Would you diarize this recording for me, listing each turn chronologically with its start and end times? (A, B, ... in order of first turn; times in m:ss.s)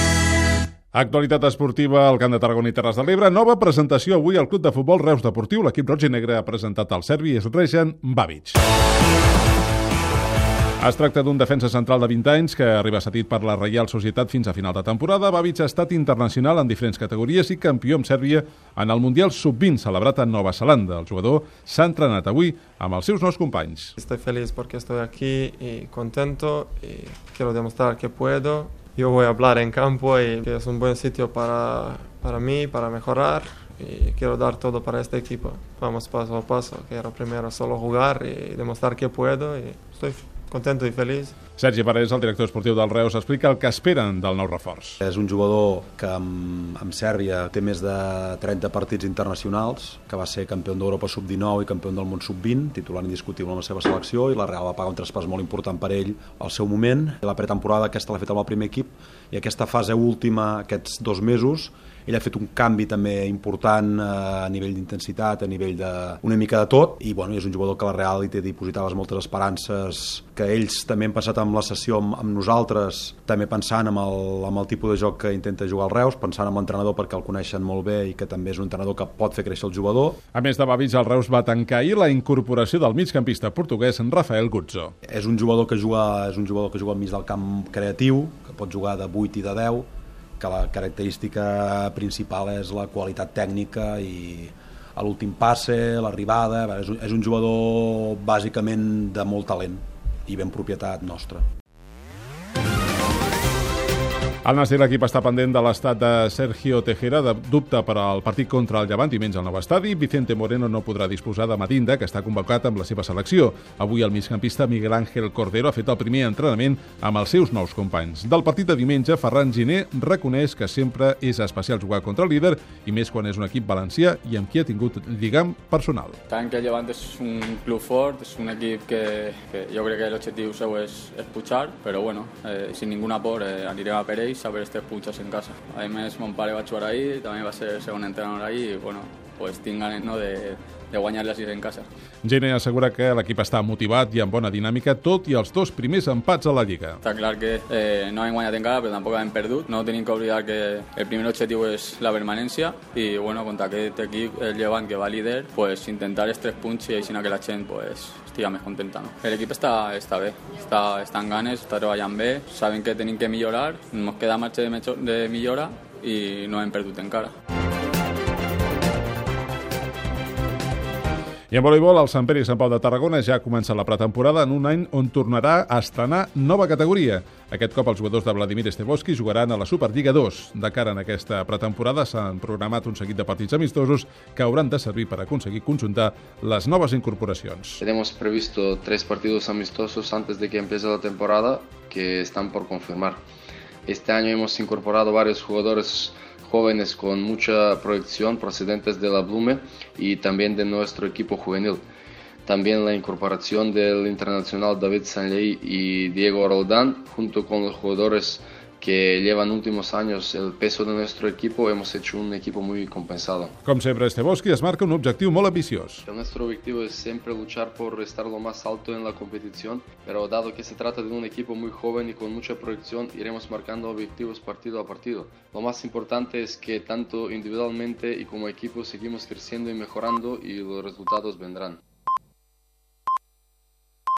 0:00.9-0:08.6 A
0:10.8-0:23.9 A
0:24.0-0:41.4 B
0:41.6-0:44.9 A
0:45.0-1:20.2 C
1:20.4-1:24.9 A
1:25.1-1:29.9 C
1:30.4-1:41.4 C
1:44.4-2:06.1 A
2:06.3-2:21.9 D
2:22.3-2:27.0 A
2:27.0-2:47.3 D
2:51.5-3:07.8 A
3:07.8-3:13.2 E
3:13.9-3:21.8 E
3:22.5-3:33.5 E
3:33.6-3:36.0 A
3:36.0-3:51.8 E